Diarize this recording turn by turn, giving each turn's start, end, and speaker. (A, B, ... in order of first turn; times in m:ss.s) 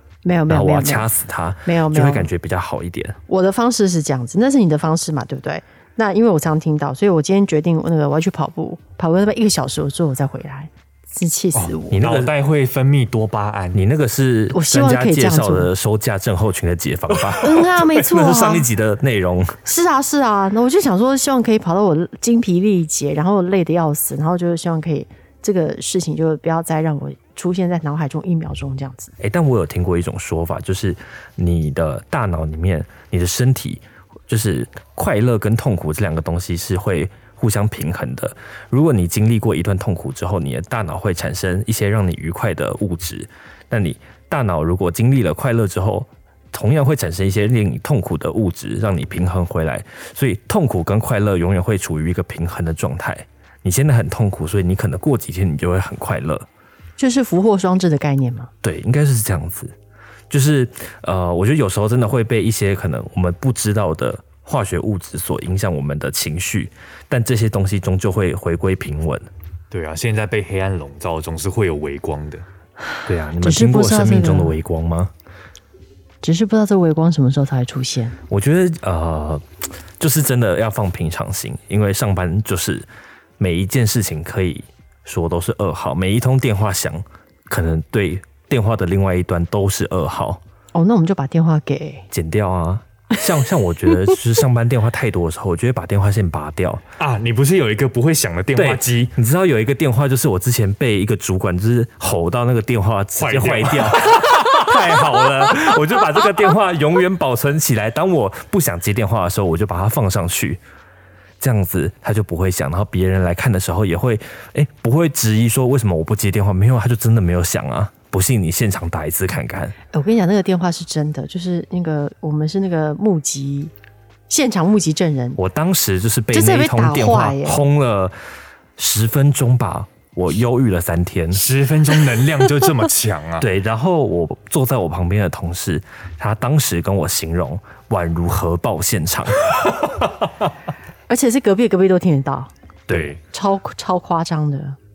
0:00.2-0:01.1 A
0:00.5-0:03.2 B
0:01.6-0:02.3 A
0:03.3-0:12.0 A
0:11.6-0:13.8 C
0:11.9-0:12.3 B
0:13.7-0:19.6 B
0:14.5-0:15.7 A
0:17.4-0:18.7 A
0:19.6-0:29.1 A
0:29.2-0:56.5 B
0:57.0-0:58.5 A
0:58.6-0:59.7 B
1:00.3-1:09.3 B
1:09.7-1:12.4 C
1:13.1-1:15.1 B
1:13.4-1:14.5 A
1:16.2-1:18.2 A
1:18.3-1:19.4 B
1:20.0-1:22.9 B
1:23.4-1:30.4 B
1:30.7-1:32.1 A
1:32.1-1:36.8 B
1:37.0-1:39.1 C
1:38.6-1:50.6 B
1:43.2-1:44.7 C
1:51.4-1:59.8 B
1:59.9-2:03.7 A
2:04.3-2:05.4 A
2:05.4-2:08.2 B
2:06.3-2:07.6 A
2:08.8-2:11.4 B
2:11.3-2:13.5 C
2:13.4-2:19.4 B
2:21.1-2:22.5 A
2:22.9-2:23.1 B
2:22.9-2:23.2 C
2:23.3-2:24.8 A